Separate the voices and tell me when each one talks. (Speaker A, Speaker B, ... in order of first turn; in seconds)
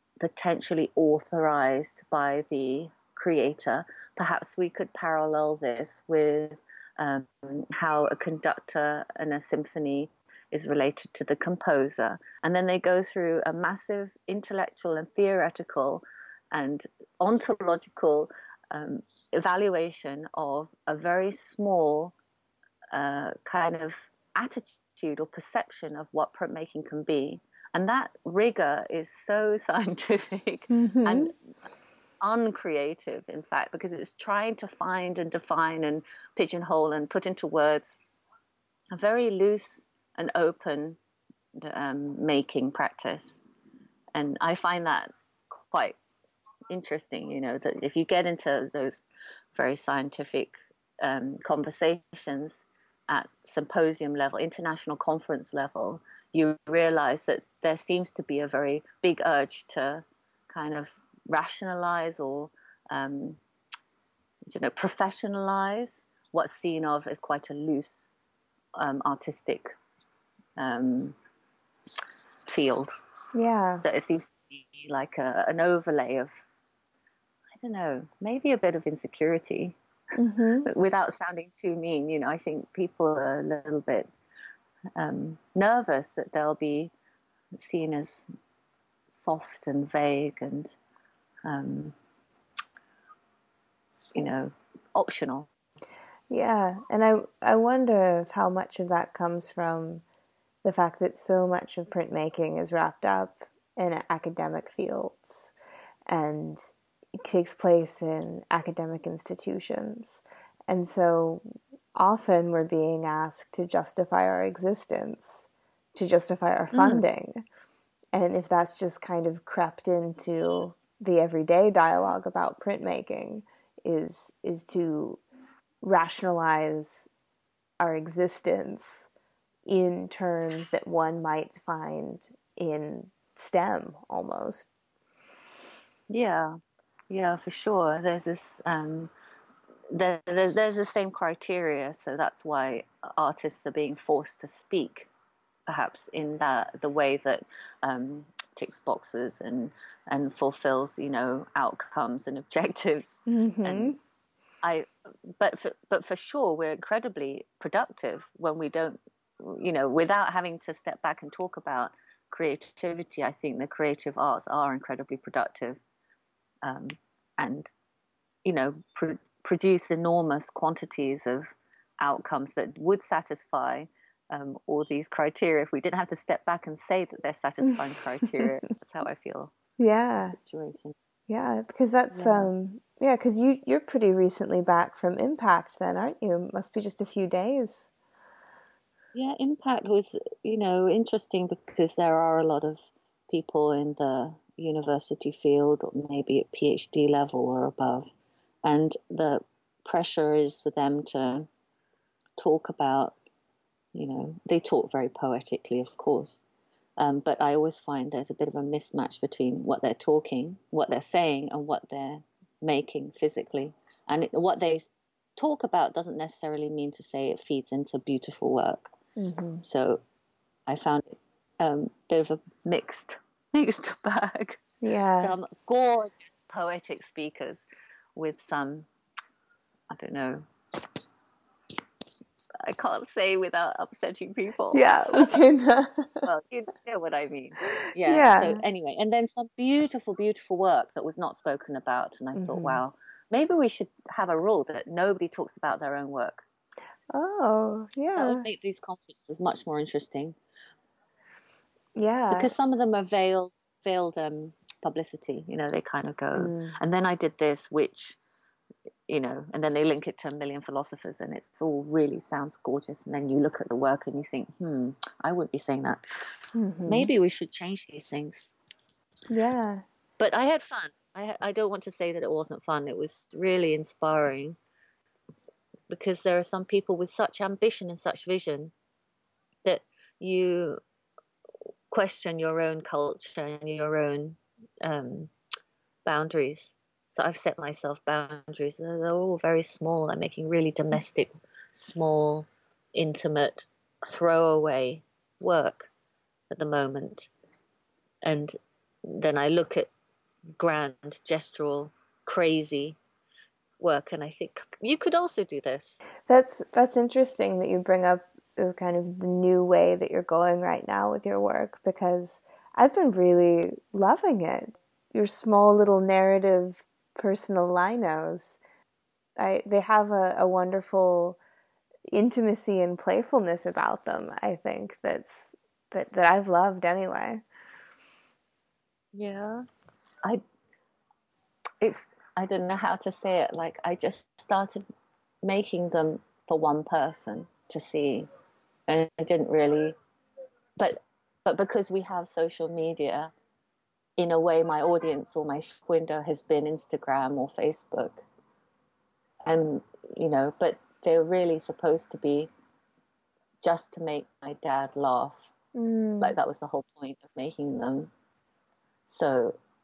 Speaker A: 0.2-22.1, 22.9-31.3, 32.2-38.0, 38.9-41.0, 41.6-43.4, 44.1-45.1, 45.7-46.0, 46.7-49.0, 49.5-63.4, 64.5-68.1, 68.8-69.7, 70.6-71.2, 72.5-72.9, 73.8-76.4, 77.5-79.8, 80.7-84.1, 85.0-86.9, 87.5-88.2, 89.1-90.8, 91.5-91.9, 94.1-95.5, 116.7-117.1, 136.1-136.6, 137.1-139.1, 139.9-145.1, 145.7-153.9, 155.4-165.8, 166.6-167.7, 168.4-179.5, 180.3-180.9, 182.1-182.5, 189.1-198.1, 198.6-201.5, 202.4-203.2, 203.9-206.4, 207.0-218.9, 219.6-220.0, 220.7-224.6, 225.2-228.9, 229.9-230.5, 232.6-235.4, 236.2-246.4, 248.1-250.3, 252.3-258.2, 259.1-266.0, 266.9-268.5, 270.2-274.6, 275.9-278.7, 279.6-280.8, 281.9-285.3, 286.1-295.9, 296.5-297.3, 298.2-299.9, 300.6-303.0, 303.8-306.0, 329.1-329.6, 331.8-334.8, 335.4-338.3, 338.9-339.9, 340.8-343.3, 344.2-348.2, 349.4-352.5, 353.6-355.5, 356.2-358.1, 359.1-359.6
Speaker B: 30.7-31.3, 73.3-73.8, 80.1-80.7, 96.3-100.0, 100.6-105.5, 106.1-106.6, 107.2-111.4, 111.9-117.4, 118.1-125.2, 125.8-127.1, 127.8-129.1, 129.7-134.7, 153.3-154.0, 179.8-180.3, 181.3-187.9, 219.2-219.6, 224.8-225.3, 234.7-236.2, 237.8-238.6, 242.3-242.8, 247.1-248.4, 251.9-252.5, 256.4-256.8, 266.5-267.1, 269.3-269.8, 306.3-318.6, 319.4-321.4, 322.1-327.4, 355.7-356.3